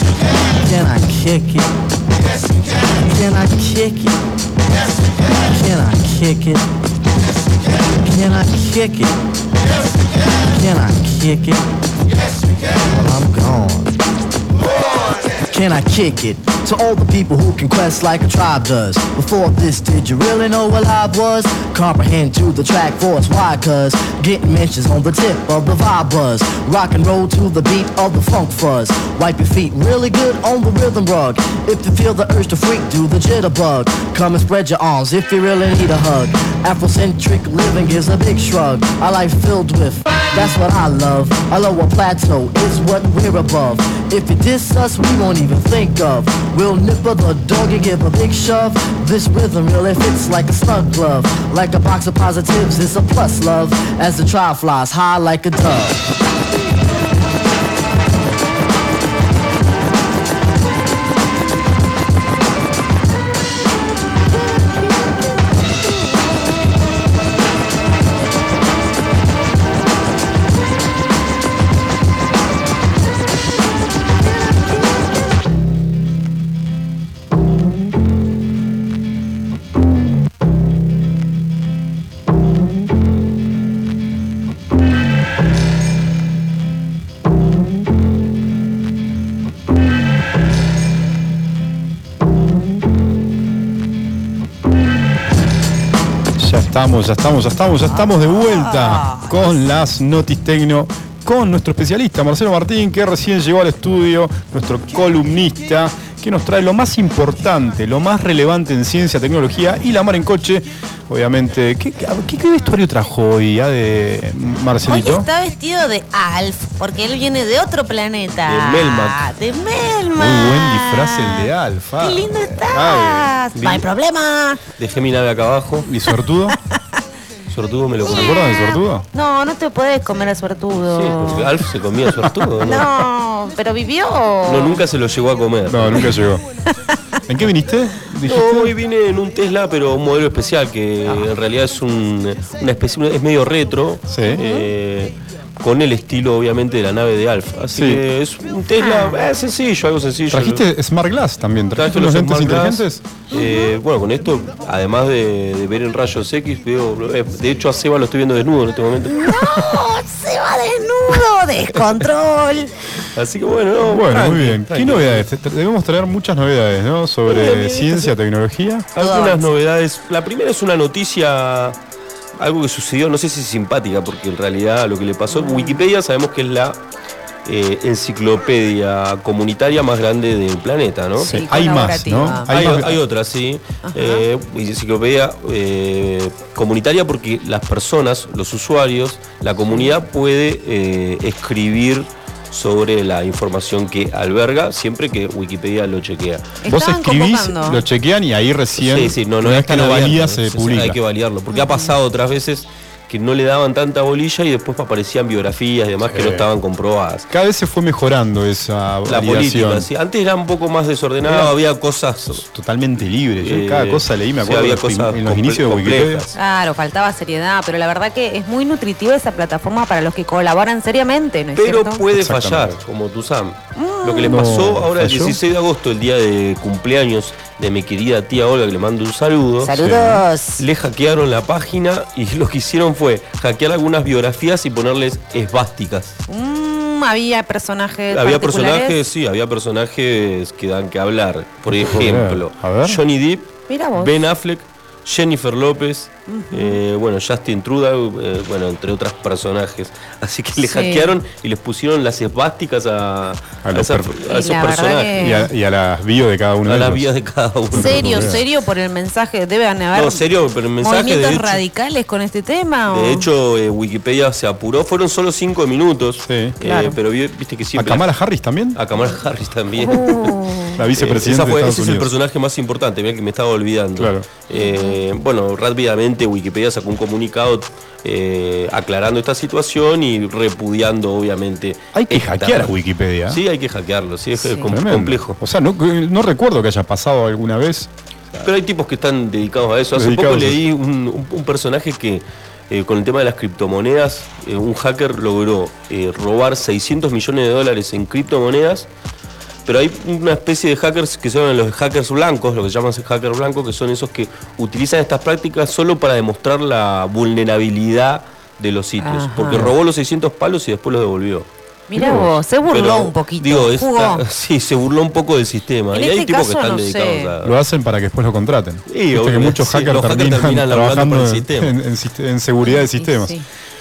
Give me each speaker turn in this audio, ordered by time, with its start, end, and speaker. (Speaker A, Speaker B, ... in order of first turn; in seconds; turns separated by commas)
Speaker A: 0.5-1.7, Speaker A: 2.9-4.2, Speaker A: 5.3-6.7, Speaker A: 7.9-9.2, Speaker A: 10.4-11.7, Speaker A: 12.9-14.0, Speaker A: 15.4-56.0, Speaker B: 96.4-115.3, Speaker C: 98.0-99.6, Speaker C: 114.9-124.6, Speaker D: 118.5-119.2, Speaker B: 120.2-123.8, Speaker D: 124.8-125.9, Speaker B: 125.8-126.6, Speaker D: 127.5-128.4, Speaker C: 128.1-131.5, Speaker B: 128.1-129.1, Speaker D: 130.7-133.0, Speaker C: 132.6-134.8, Speaker D: 134.5-136.2, Speaker B: 135.7-136.4, Speaker B: 137.3-138.7, Speaker D: 138.2-150.7, Speaker B: 144.1-144.4, Speaker C: 144.3-144.7, Speaker B: 147.8-148.0, Speaker C: 148.8-149.2, Speaker B: 150.3-153.0, Speaker D: 151.8-159.8, Speaker C: 153.3-153.7, Speaker C: 159.1-162.7, Speaker D: 163.1-165.3, Speaker B: 163.8-168.9, Speaker C: 167.3-168.1, Speaker D: 167.4-167.7, Speaker D: 168.9-171.8, Speaker C: 169.0-169.4, Speaker D: 172.4-176.8, Speaker C: 175.3-175.8, Speaker D: 177.4-181.4, Speaker C: 181.2-182.8, Speaker B: 181.2-183.0, Speaker D: 182.5-196.6, Speaker C: 183.8-184.2, Speaker C: 196.6-197.8, Speaker B: 196.7-201.0, Speaker D: 198.8-207.3, Speaker C: 201.5-201.9, Speaker B: 206.1-206.5, Speaker B: 207.3-209.9, Speaker D: 209.1-212.5, Speaker B: 211.2-211.6, Speaker B: 212.3-216.3, Speaker D: 213.4-216.3, Speaker C: 216.3-222.0, Speaker D: 221.6-236.2, Speaker B: 222.1-222.8, Speaker C: 223.8-224.4, Speaker B: 224.2-225.4, Speaker C: 229.6-230.6, Speaker B: 229.8-230.2, Speaker C: 236.3-239.0, Speaker D: 238.1-255.4, Speaker B: 241.7-243.0, Speaker C: 243.7-244.1, Speaker C: 246.3-246.8, Speaker C: 250.6-251.2, Speaker B: 253.7-254.2, Speaker C: 254.2-255.5, Speaker B: 255.2-257.1, Speaker D: 256.6-258.4, Speaker B: 257.7-258.4, Speaker C: 257.8-260.2, Speaker D: 259.9-261.6, Speaker C: 260.8-263.3, Speaker D: 262.9-268.1, Speaker B: 266.2-266.6, Speaker C: 266.6-267.0, Speaker B: 267.8-268.8, Speaker D: 268.8-282.7, Speaker C: 269.8-270.8, Speaker B: 270.8-272.1, Speaker B: 274.0-274.3, Speaker C: 274.5-275.0, Speaker B: 281.9-283.4, Speaker D: 283.3-285.4, Speaker C: 284.4-284.8, Speaker B: 284.7-287.9, Speaker D: 288.4-298.9, Speaker B: 289.9-290.6, Speaker D: 299.7-311.5, Speaker C: 309.0-309.7, Speaker C: 311.9-314.2, Speaker B: 311.9-312.4, Speaker D: 312.7-317.6, Speaker C: 315.9-317.3, Speaker B: 317.4-323.4, Speaker D: 318.9-321.8, Speaker C: 322.6-323.4